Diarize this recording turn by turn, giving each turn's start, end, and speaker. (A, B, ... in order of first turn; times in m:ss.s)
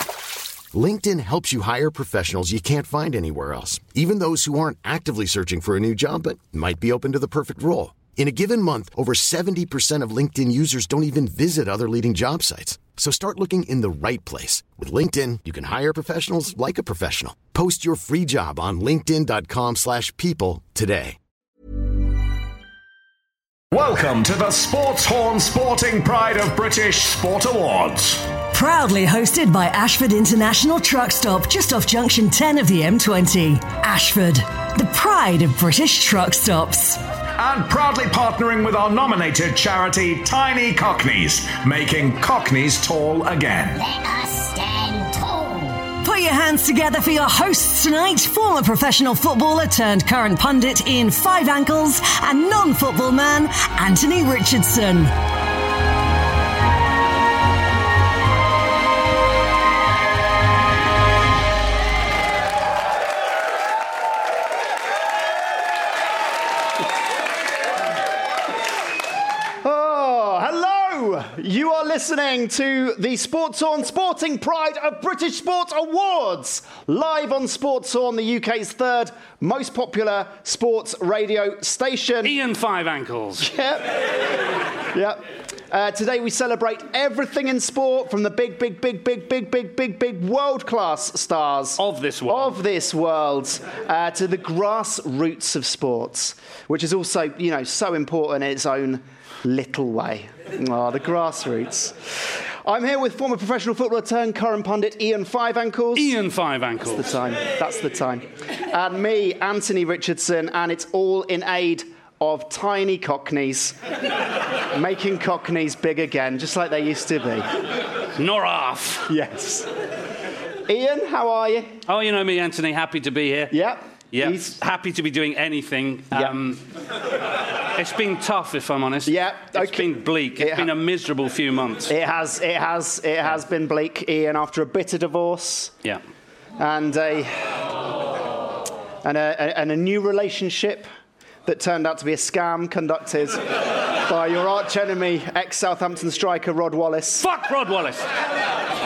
0:00.7-0:21.2 A
0:23.7-0:28.3 B
0:28.5-0:37.0 C
0:37.4-0:43.8 B
0:43.8-0:45.8 D
0:46.0-0:55.1 C
1:09.6-1:22.3 E
1:22.2-1:23.5 F
1:23.4-1:24.0 E
1:24.9-1:46.2 E
1:31.8-1:32.6 F
1:45.9-1:47.1 F
1:46.9-1:53.8 E
1:54.7-1:57.5 E
1:58.2-1:59.1 F
1:59.1-1:59.7 E
2:00.7-2:01.7 E
2:01.9-2:03.6 F
2:03.5-2:04.6 E
2:04.1-2:06.6 F
2:07.8-2:11.9 F
2:09.0-2:10.7 E
2:11.9-2:15.7 E
2:16.6-2:17.6 E
2:19.0-2:20.9 E
2:21.4-2:23.4 E
2:23.9-2:27.2 E
2:27.2-2:28.1 F